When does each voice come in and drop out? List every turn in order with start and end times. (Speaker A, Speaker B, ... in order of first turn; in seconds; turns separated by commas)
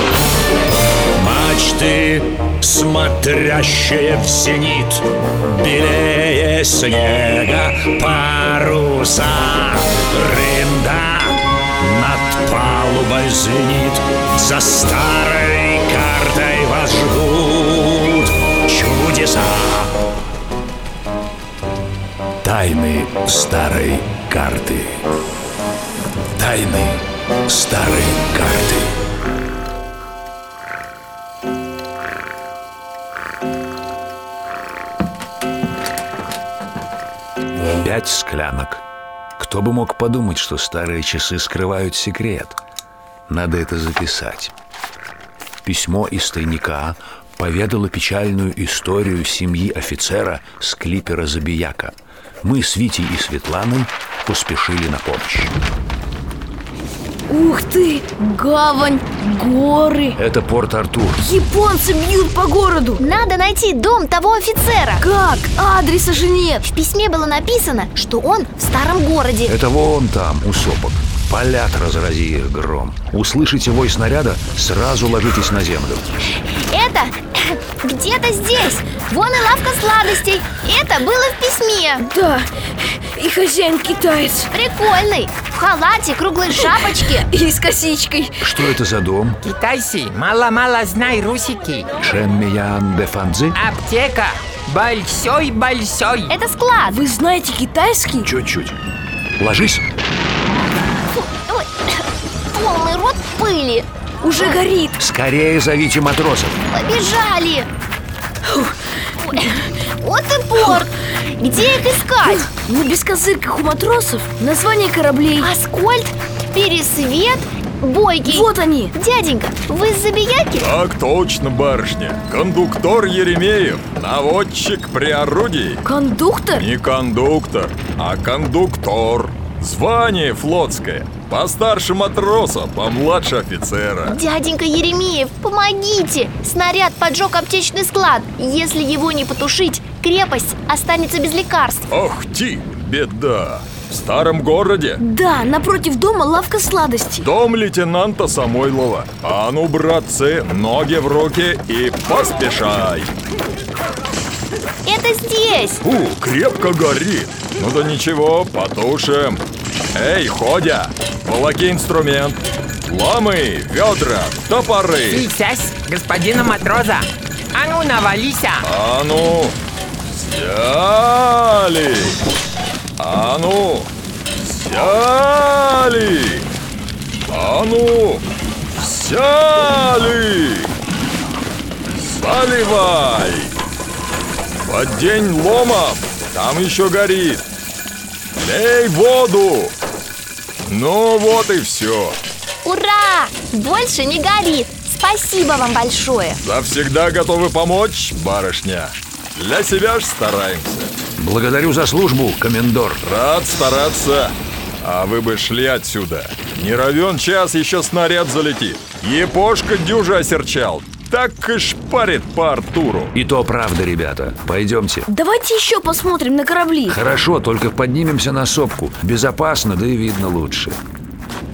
Speaker A: 1.1-20.0, Speaker A: 22.4-25.0, Speaker A: 26.4-28.9, Speaker A: 37.7-38.8, Speaker A: 39.4-42.6, Speaker A: 43.3-44.5, Speaker A: 45.6-55.5, Speaker B: 57.3-60.2, Speaker A: 60.2-61.2, Speaker B: 61.1-63.0, Speaker C: 63.0-65.0, Speaker B: 65.0-66.6, Speaker C: 66.6-69.5, Speaker A: 69.5-76.2, Speaker C: 76.5-82.0, Speaker B: 82.0-84.5, Speaker C: 84.5-87.3, Speaker B: 86.5-88.5, Speaker A: 88.4-89.4, Speaker D: 89.5-91.9, Speaker A: 92.0-93.6, Speaker D: 93.6-96.3, Speaker C: 96.3-97.0, Speaker B: 96.9-98.3, Speaker A: 98.2-98.8, Speaker A: 99.4-99.8, Speaker C: 101.1-101.9, Speaker C: 102.5-103.8, Speaker B: 104.2-105.0, Speaker A: 105.0-106.6, Speaker C: 106.7-107.7, Speaker B: 108.5-108.8, Speaker C: 110.0-112.5, Speaker B: 112.3-115.5, Speaker C: 115.4-120.7, Speaker B: 118.2-118.9, Speaker E: 120.6-125.8, Speaker B: 125.8-126.7, Speaker E: 126.5-134.2, Speaker C: 134.0-141.9, Speaker E: 141.9-145.0, Speaker B: 145.0-147.3, Speaker E: 147.2-153.1, Speaker C: 154.8-155.8, Speaker E: 155.8-159.4, Speaker E: 159.9-165.3, Speaker D: 165.1-167.0, Speaker D: 167.5-168.6, Speaker E: 168.6-169.6, Speaker E: 170.1-172.2, Speaker E: 173.0-173.9, Speaker E: 174.4-176.5, Speaker E: 177.3-178.2, Speaker E: 178.8-180.7, Speaker E: 181.9-183.5, Speaker E: 184.7-187.4, Speaker E: 188.4-189.7, Speaker E: 190.7-192.2, Speaker C: 192.6-196.4, Speaker E: 196.4-200.9, Speaker A: 201.2-203.0, Speaker E: 203.0-213.1, Speaker A: 213.1-215.1, Speaker B: 215.1-217.0, Speaker A: 216.9-220.8